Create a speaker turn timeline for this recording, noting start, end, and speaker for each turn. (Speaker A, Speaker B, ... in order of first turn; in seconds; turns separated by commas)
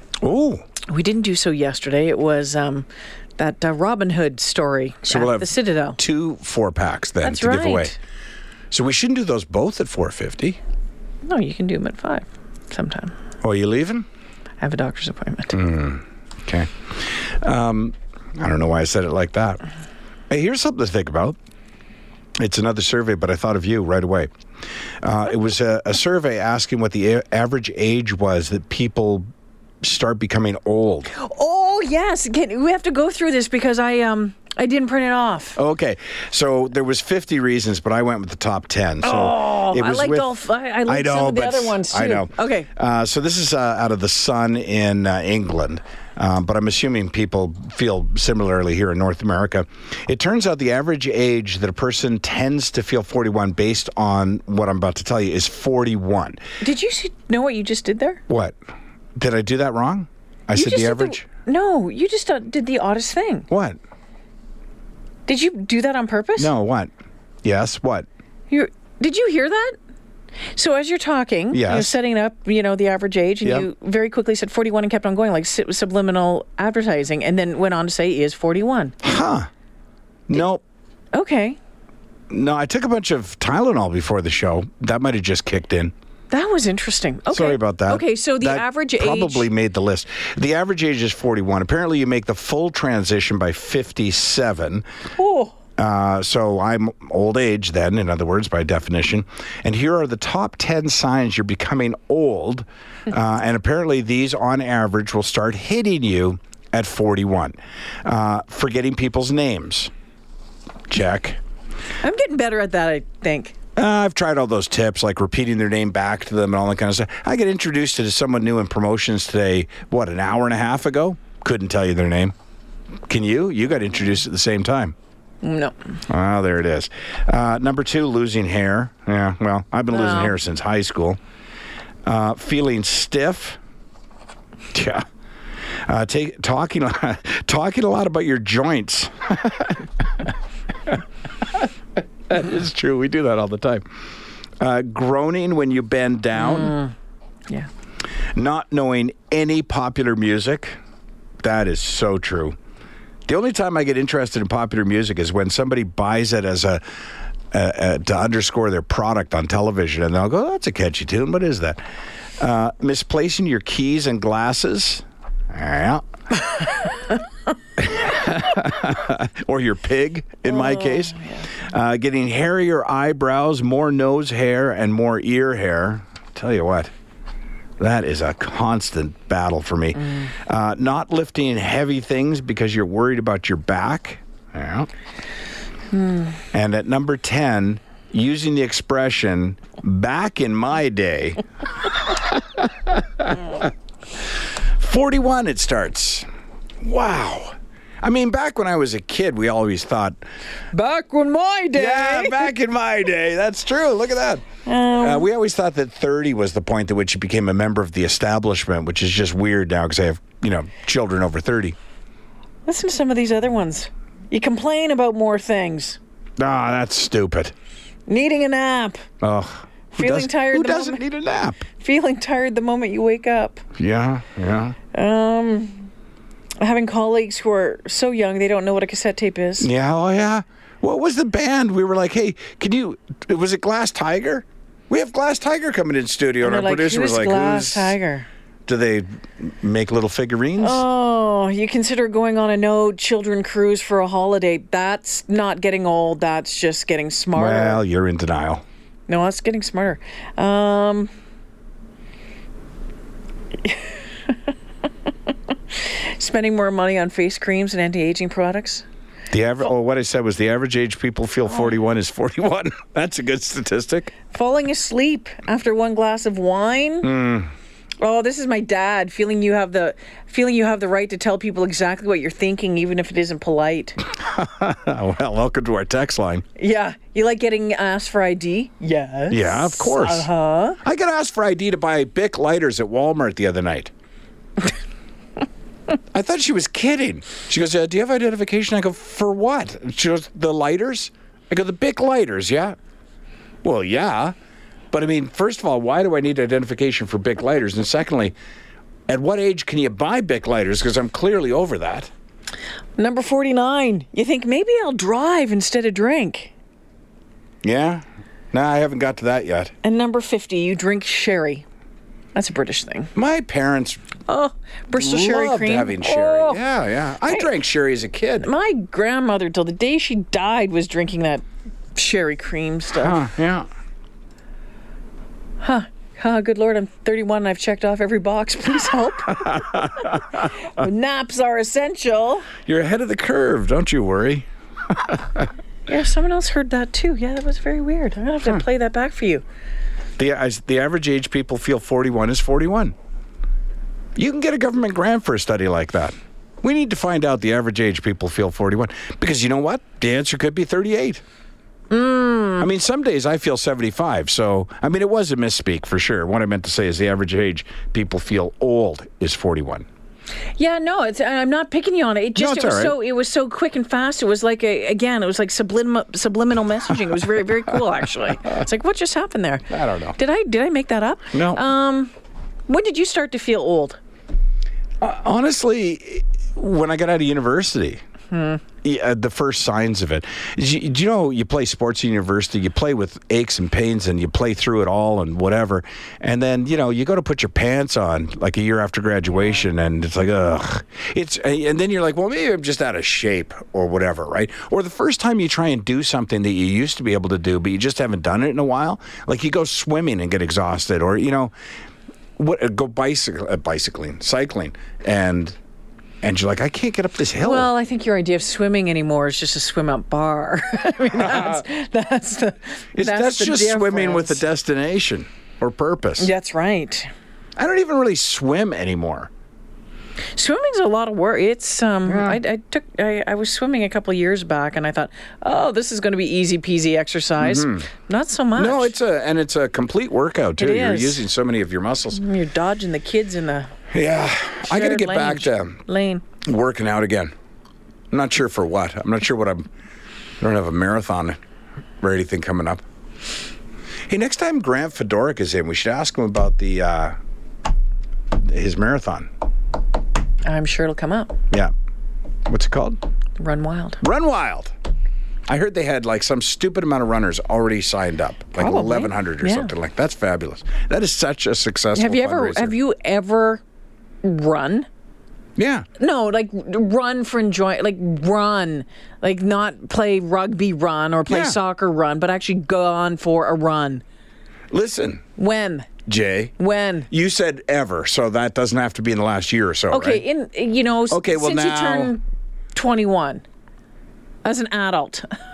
Speaker A: 0.2-0.6, Speaker B: 0.9-2.9, Speaker B: 3.4-6.0, Speaker A: 5.1-7.9, Speaker B: 7.2-8.0, Speaker A: 8.7-10.6, Speaker B: 11.3-13.1, Speaker A: 13.4-14.1, Speaker B: 14.6-15.6, Speaker A: 15.5-16.7, Speaker A: 17.4-19.6, Speaker A: 20.3-21.4, Speaker A: 22.4-24.3, Speaker A: 25.0-29.3, Speaker A: 29.8-31.1, Speaker B: 31.1-35.6, Speaker A: 35.6-40.4, Speaker B: 39.0-42.7, Speaker A: 40.9-56.4, Speaker B: 56.6-58.2, Speaker A: 58.3-58.5, Speaker A: 59.2-61.3, Speaker B: 60.5-63.5, Speaker A: 63.5-63.8, Speaker B: 65.3-66.5, Speaker A: 66.4-66.9, Speaker A: 67.4-68.1, Speaker B: 68.5-69.8, Speaker B: 70.5-79.0, Speaker A: 71.5-72.0, Speaker A: 79.0-79.5, Speaker A: 80.3-80.6, Speaker B: 81.1-81.6, Speaker A: 82.3-85.9, Speaker B: 86.3-89.5, Speaker A: 87.3-94.8, Speaker B: 95.2-95.5, Speaker A: 95.8-109.9, Speaker A: 110.9-111.4, Speaker B: 112.0-113.5, Speaker A: 113.8-122.3, Speaker A: 123.1-125.0, Speaker B: 125.4-125.8, Speaker A: 126.1-131.2, Speaker B: 129.9-130.3, Speaker A: 132.1-133.6, Speaker A: 134.7-135.1, Speaker A: 135.9-139.8, Speaker A: 142.3-143.8, Speaker A: 144.6-146.8, Speaker B: 146.4-146.9, Speaker A: 148.3-150.8, Speaker A: 151.4-152.6, Speaker A: 153.3-156.8, Speaker A: 157.5-161.8, Speaker A: 162.4-166.0, Speaker A: 167.8-176.9, Speaker B: 170.5-171.5, Speaker A: 177.8-184.9, Speaker A: 186.5-191.4, Speaker A: 192.1-193.7, Speaker A: 194.8-196.3, Speaker A: 196.8-200.2, Speaker B: 200.7-202.5, Speaker A: 201.7-204.4, Speaker B: 204.7-205.3, Speaker A: 205.0-211.8, Speaker B: 212.7-216.0, Speaker A: 216.4-217.5, Speaker B: 218.1-219.0, Speaker A: 219.2-221.6, Speaker B: 219.9-221.0, Speaker B: 221.8-223.6, Speaker A: 223.8-224.8, Speaker B: 224.9-225.9, Speaker B: 226.6-229.7, Speaker A: 229.6-238.0, Speaker B: 236.4-238.3, Speaker A: 238.7-240.8, Speaker B: 240.6-247.8, Speaker A: 247.3-248.6, Speaker B: 249.1-251.1, Speaker B: 253.6-253.9, Speaker B: 255.7-258.9, Speaker A: 259.3-264.1, Speaker B: 264.3-267.1, Speaker A: 267.0-267.5, Speaker B: 268.0-274.0, Speaker A: 274.1-276.4, Speaker B: 276.6-280.8, Speaker A: 279.3-280.3, Speaker A: 280.8-283.9, Speaker A: 286.1-292.8, Speaker A: 293.6-294.3, Speaker A: 294.9-298.4, Speaker A: 299.1-302.1, Speaker B: 303.0-306.5, Speaker A: 307.6-309.7, Speaker B: 309.8-311.6, Speaker B: 312.4-313.1, Speaker A: 313.1-314.0, Speaker B: 314.3-316.6, Speaker A: 314.9-318.5, Speaker B: 317.2-317.5, Speaker B: 318.4-321.4, Speaker B: 321.9-323.2, Speaker A: 322.9-323.7, Speaker B: 325.6-332.5, Speaker A: 329.4-330.1, Speaker A: 332.7-335.5, Speaker B: 335.9-339.4, Speaker A: 340.2-342.9, Speaker A: 344.2-351.2, Speaker B: 351.9-352.7, Speaker A: 352.6-359.9, Speaker B: 360.6-372.1, Speaker A: 362.4-362.9, Speaker A: 369.7-370.2, Speaker A: 371.3-371.6, Speaker B: 372.7-374.0, Speaker A: 375.0-378.0, Speaker B: 378.3-378.6, Speaker A: 378.8-401.5, Speaker A: 402.4-405.6, Speaker A: 406.2-407.7, Speaker B: 407.4-414.4, Speaker A: 411.2-411.6, Speaker A: 412.9-416.3, Speaker B: 416.2-417.1, Speaker A: 417.6-419.3, Speaker B: 420.3-429.0, Speaker A: 422.1-422.4, Speaker A: 427.4-427.9, Speaker A: 428.6-432.2, Speaker B: 430.6-431.2, Speaker B: 432.1-433.7, Speaker A: 433.9-435.8, Speaker B: 434.7-436.2, Speaker A: 436.4-437.3, Speaker A: 438.1-439.7, Speaker A: 440.4-441.4, Speaker A: 442.0-442.8, Speaker A: 444.1-447.1, Speaker A: 448.4-449.3, Speaker B: 450.4-451.4, Speaker A: 452.5-453.0, Speaker B: 453.4-454.0, Speaker A: 454.0-454.7, Speaker A: 455.5-462.8, Speaker B: 458.6-459.7, Speaker B: 461.9-463.6, Speaker B: 464.2-464.9, Speaker A: 465.6-465.9, Speaker B: 466.0-474.0, Speaker A: 471.3-471.6, Speaker A: 474.7-475.2, Speaker B: 475.4-475.9, Speaker A: 476.1-476.5, Speaker B: 476.6-477.1, Speaker A: 477.1-480.2, Speaker B: 479.9-482.2, Speaker A: 481.1-482.1, Speaker B: 482.7-483.4, Speaker B: 484.4-485.3